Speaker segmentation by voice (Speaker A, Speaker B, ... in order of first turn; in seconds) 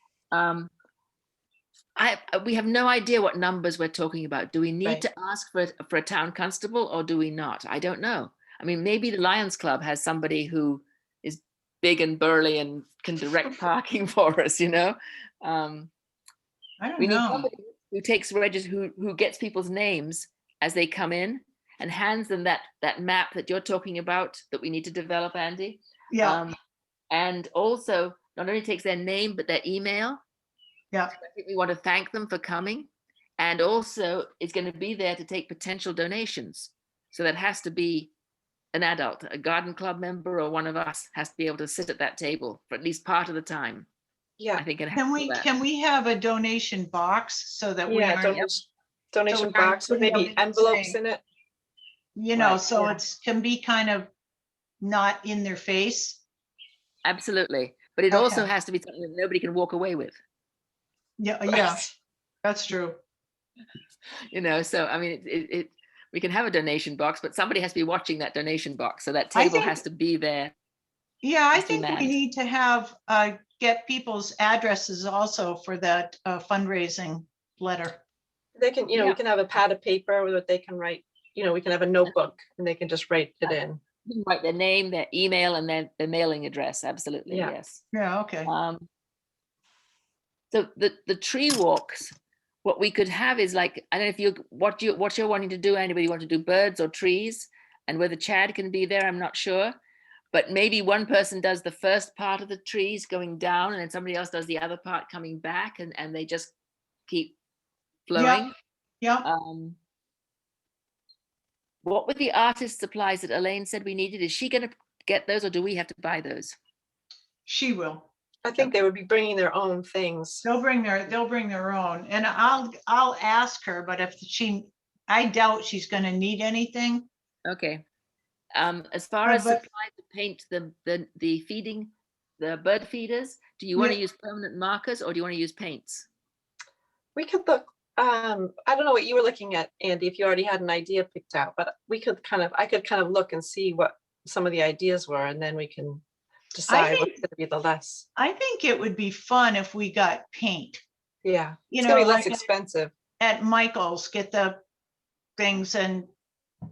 Speaker A: 0.3-0.7, 2.0-15.9, 17.0-26.5, 27.1-30.2, 31.1-38.1, 38.7-43.9, 44.6-45.5, 57.0-60.2, 64.3-70.5, 71.5-72.2, 79.0-79.2, 84.1-87.8, 88.5-88.9, 90.5-99.8, 100.3-106.5, 107.1-107.4, 108.1-108.5, 109.2-109.8, 111.8-116.6, 127.5-127.8, 128.6-136.1
Speaker B: 16.8-17.5, 26.1-26.4, 45.0-48.5, 49.3-51.0, 52.2-54.1, 54.8-56.2, 58.1-58.5, 61.2-61.8, 62.4-63.0, 69.3-69.8, 71.2-78.0, 87.9-88.5, 108.2-108.5, 109.0-109.3, 117.5-118.1, 120.4-127.1, 129.2-129.6, 146.7-147.2, 148.2-150.8, 151.7-152.5, 153.2-154.6, 155.4-156.1
Speaker C: 47.9-51.2, 52.4-53.0, 61.5-61.8, 78.6-83.8, 87.3-87.5, 118.4-120.5, 137.2-146.0, 146.5-148.1, 151.2-152.9